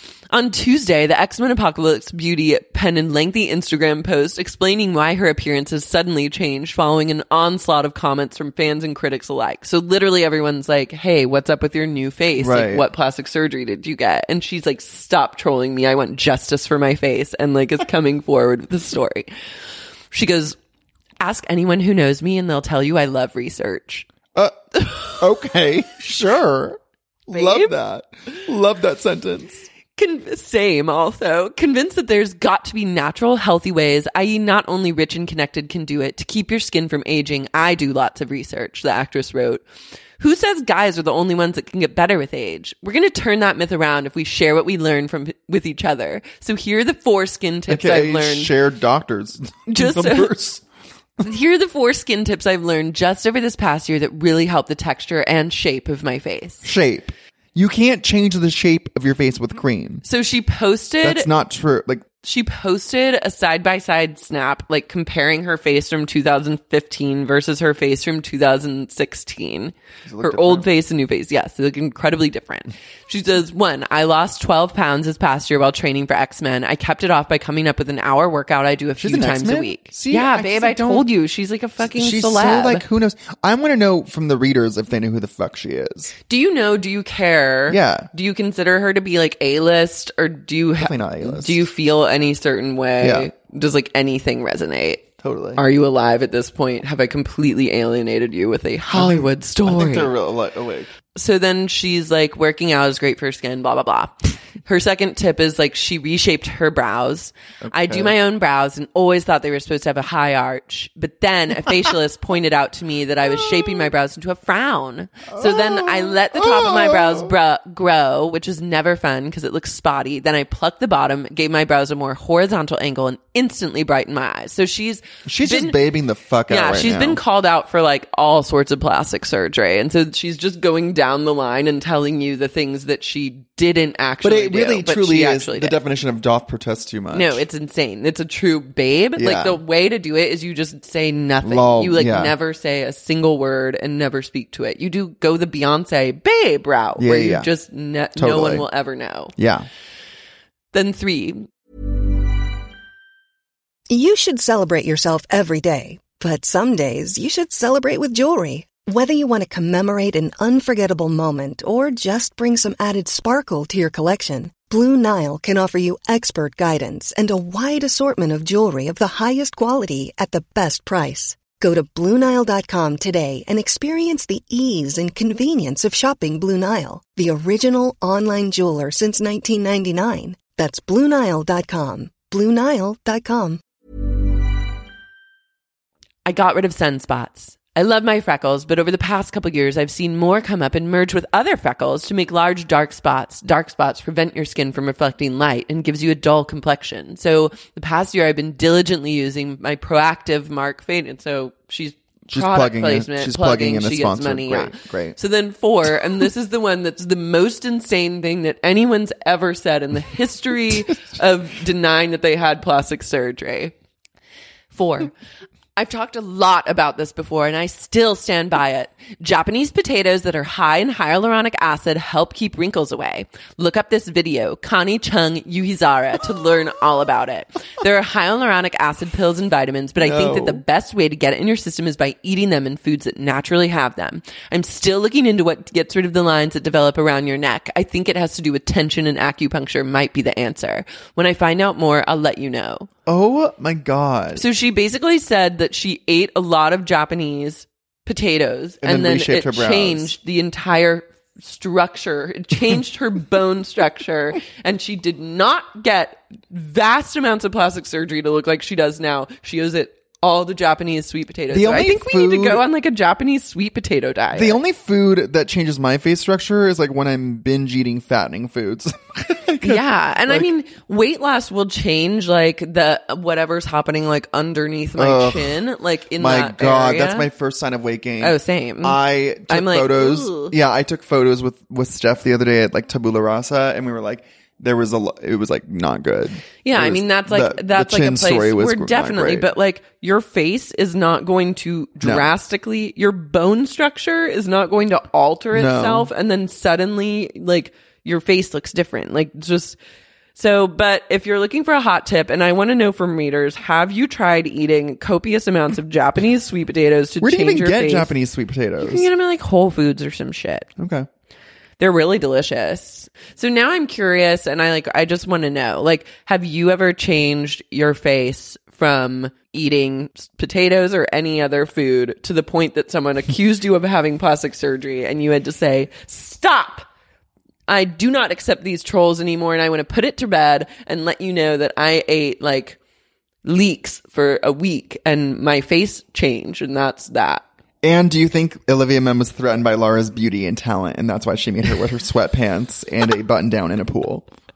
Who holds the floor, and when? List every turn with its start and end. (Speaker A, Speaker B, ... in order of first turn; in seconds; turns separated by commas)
Speaker A: 0.3-19.3, Speaker B: 12.4-12.9, Speaker A: 20.1-20.6, Speaker A: 21.2-24.1, Speaker A: 24.9-25.2, Speaker B: 25.1-29.7, Speaker A: 27.3-27.7, Speaker A: 30.0-39.6, Speaker A: 40.2-48.5, Speaker B: 47.7-50.6, Speaker A: 49.7-50.4, Speaker A: 51.2-56.7, Speaker B: 56.6-60.0, Speaker A: 60.0-61.3, Speaker B: 61.0-62.1, Speaker A: 62.2-82.8, Speaker B: 70.1-70.7, Speaker B: 79.0-81.1, Speaker B: 81.8-86.1, Speaker A: 86.3-95.0, Speaker B: 87.7-88.1, Speaker B: 90.8-91.7, Speaker B: 93.0-93.3, Speaker B: 95.2-95.6, Speaker A: 95.6-100.1, Speaker B: 98.9-100.9, Speaker A: 101.1-125.8, Speaker B: 107.6-108.2, Speaker B: 115.3-117.3, Speaker B: 125.2-127.2, Speaker A: 126.5-135.8, Speaker B: 134.2-137.4, Speaker A: 137.1-149.3, Speaker B: 139.2-139.6, Speaker B: 141.4-142.3, Speaker B: 147.0-147.5, Speaker B: 148.2-148.7, Speaker B: 149.4-149.7, Speaker A: 150.7-151.5, Speaker C: 153.9-183.6, Speaker A: 186.2-213.7, Speaker B: 202.3-205.2, Speaker A: 214.7-215.1, Speaker A: 215.8-242.9, Speaker B: 230.0-230.6, Speaker B: 243.1-244.4, Speaker A: 244.3-264.6, Speaker B: 248.8-250.2, Speaker B: 261.5-262.6, Speaker B: 264.3-270.5, Speaker A: 269.6-277.3, Speaker B: 275.0-275.6, Speaker B: 276.2-289.5, Speaker A: 278.2-280.6, Speaker A: 286.6-299.8, Speaker B: 292.0-292.3, Speaker B: 295.5-296.1, Speaker A: 300.4-308.1, Speaker B: 307.2-309.1, Speaker A: 308.8-310.7, Speaker B: 310.8-311.1, Speaker A: 311.8-326.9, Speaker A: 327.7-332.8, Speaker A: 333.4-337.4, Speaker B: 337.8-344.3